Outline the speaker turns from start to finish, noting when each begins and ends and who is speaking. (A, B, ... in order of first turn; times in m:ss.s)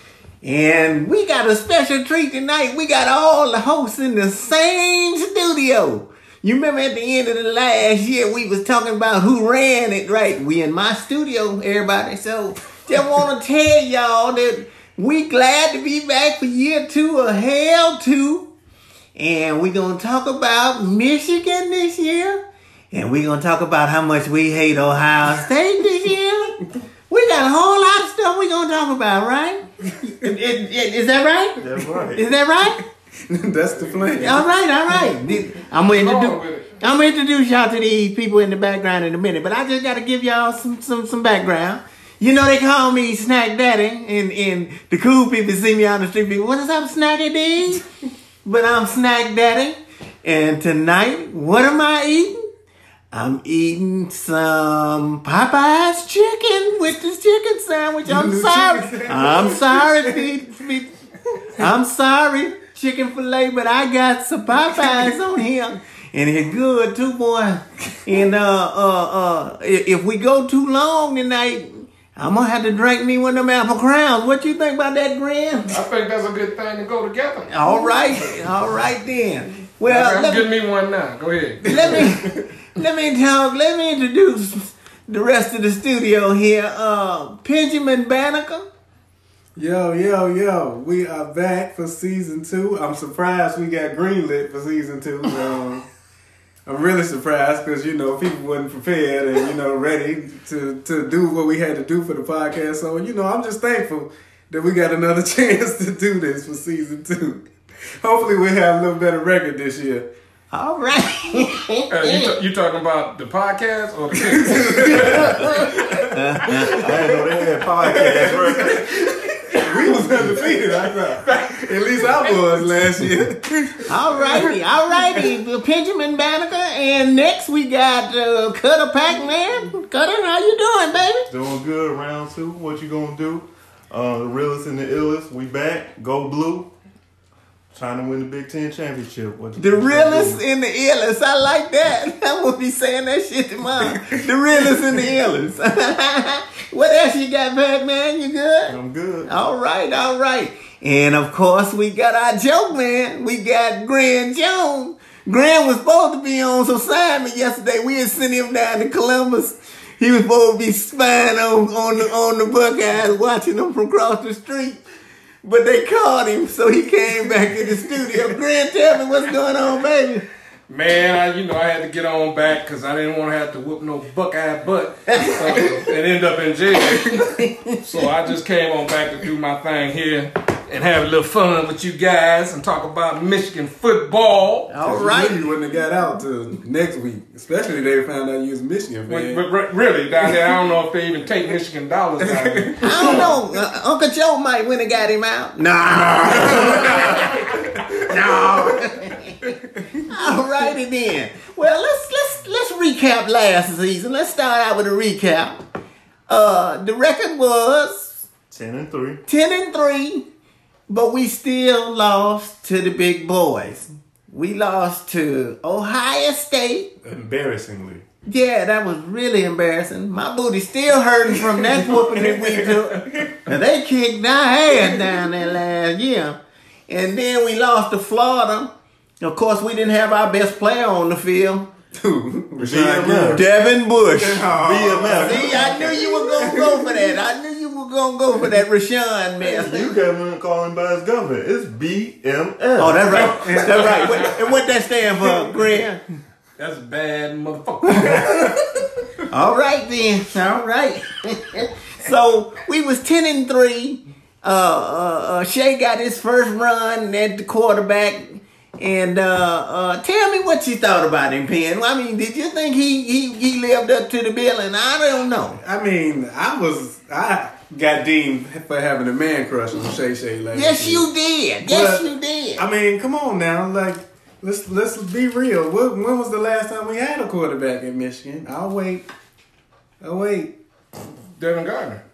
0:00.4-0:18.5 A
0:19.2-0:32.8 A
0:31.6-0:32.2 B
0:33.3-0:35.4 C
0:34.2-0:47.9 A
0:35.9-0:36.7 D
0:48.4-0:52.5 A
0:53.1-1:00.9 A
0:58.0-1:00.3 C
1:01.5-1:15.8 A
1:15.7-1:17.6 D
1:17.5-1:20.5 A
1:19.8-1:22.2 D
1:21.6-1:28.7 A
1:21.7-1:22.5 C
1:29.6-1:35.9 C
1:36.7-1:47.5 C
1:48.0-1:50.1 C
1:50.5-1:52.4 A
1:51.9-1:55.9 D
1:54.3-1:57.2 C
1:56.0-1:56.9 A
1:56.5-2:01.2 B
1:57.8-2:05.2 C
2:03.9-2:11.3 A
2:11.3-2:16.7 B
2:17.7-2:20.4 B
2:19.6-2:28.8 A
2:28.7-2:29.3 B
2:29.3-2:44.8 A
2:45.4-2:50.2 A
2:50.7-3:04.7 D
2:55.1-2:55.7 A
3:04.7-3:05.4 A
3:04.8-3:09.4 C
3:09.1-3:13.4 D
3:10.3-3:10.5 C
3:12.2-3:13.4 C
3:12.8-3:19.5 A
3:16.3-3:18.6 C
3:19.5-3:20.1 C
3:20.0-3:25.6 A
3:26.3-3:28.2 A
3:28.5-3:29.2 B
3:29.3-3:30.3 A
3:30.9-3:36.9 A
3:37.0-3:38.0 C
3:38.3-3:46.4 A
3:41.3-3:43.4 C
3:44.8-3:45.2 C
3:46.9-3:51.7 A
3:52.0-3:57.2 C
3:52.6-3:53.4 B
3:53.3-3:54.5 A
3:54.5-3:56.1 B
3:55.0-4:00.0 A
3:59.4-4:03.3 B
4:02.6-4:06.0 A
4:03.1-4:04.2 C
4:03.4-4:04.4 D
4:06.6-4:08.6 D
4:08.0-4:08.5 C
4:09.3-4:25.6 A
4:25.6-4:31.1 C
4:30.5-4:32.6 A
4:31.6-4:39.1 C
4:40.0-4:40.6 C
4:41.4-4:42.0 D